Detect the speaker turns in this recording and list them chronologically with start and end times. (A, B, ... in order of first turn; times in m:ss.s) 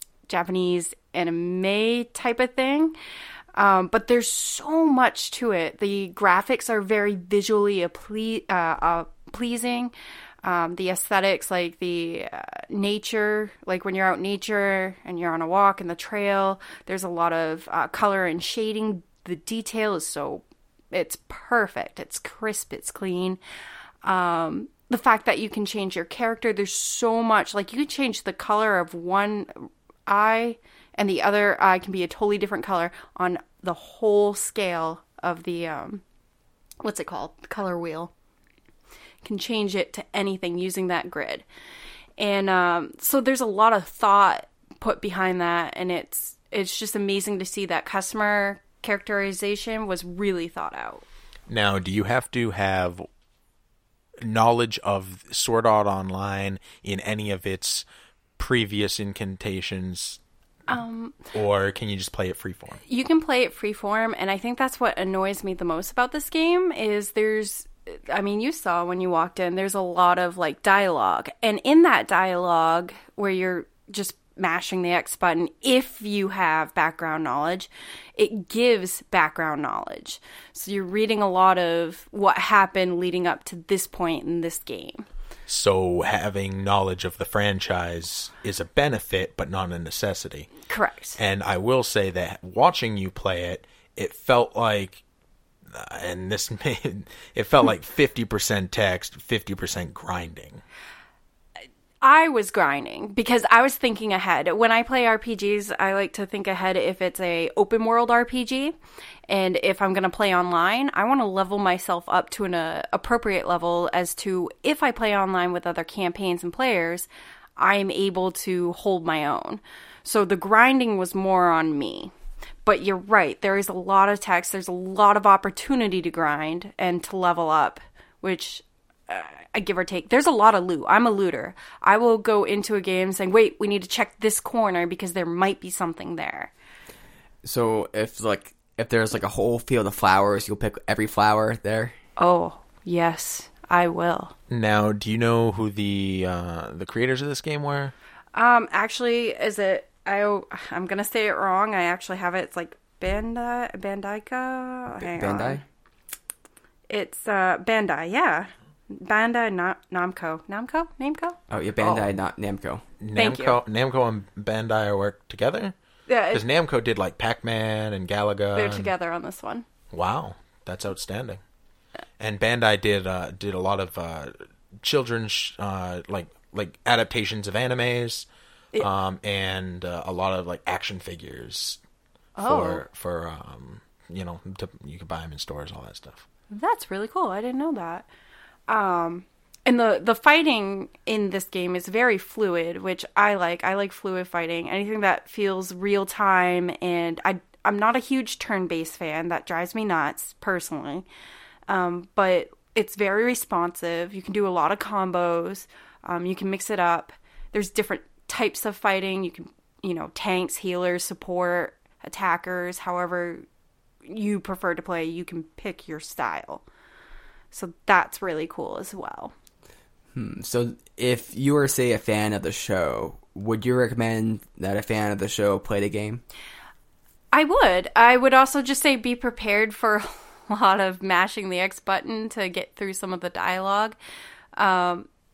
0:00.3-0:03.0 A
0:03.5-0:23.4 A
0:24.0-0:36.0 A
0:36.8-0:38.1 A
0:39.2-0:41.4 A
0:42.2-0:51.0 A
0:51.5-0:53.0 B
0:54.2-0:57.8 B
0:58.4-1:00.2 B
1:00.7-1:01.2 A
1:01.3-1:02.8 B
1:02.8-1:25.0 A
1:25.5-1:30.5 B
1:30.7-1:31.2 A
1:31.2-1:35.0 B
1:35.7-1:40.6 B
1:42.0-1:48.7 A
1:49.3-2:02.1 A
2:02.6-2:16.5 A
2:17.4-2:22.0 C
2:22.2-2:24.3 A
2:24.5-2:27.9 B
2:28.3-2:35.6 A
2:35.0-2:35.6 C
2:36.9-2:41.4 A
2:41.5-2:42.8 C
2:43.0-2:45.7 B
2:43.1-2:43.6 A
2:46.1-2:46.4 A
2:46.3-2:48.9 B
2:48.5-2:49.6 A
2:49.9-2:51.4 B
2:52.2-2:58.3 B
2:58.8-3:01.8 B
3:02.4-3:02.8 A
3:02.4-3:06.2 B
3:06.5-3:08.1 A
3:08.7-3:21.0 A
3:21.7-3:33.4 A
3:34.0-3:36.6 A
3:37.5-3:39.3 A
3:40.1-3:46.2 C
3:47.3-3:54.0 A
3:54.5-3:55.1 A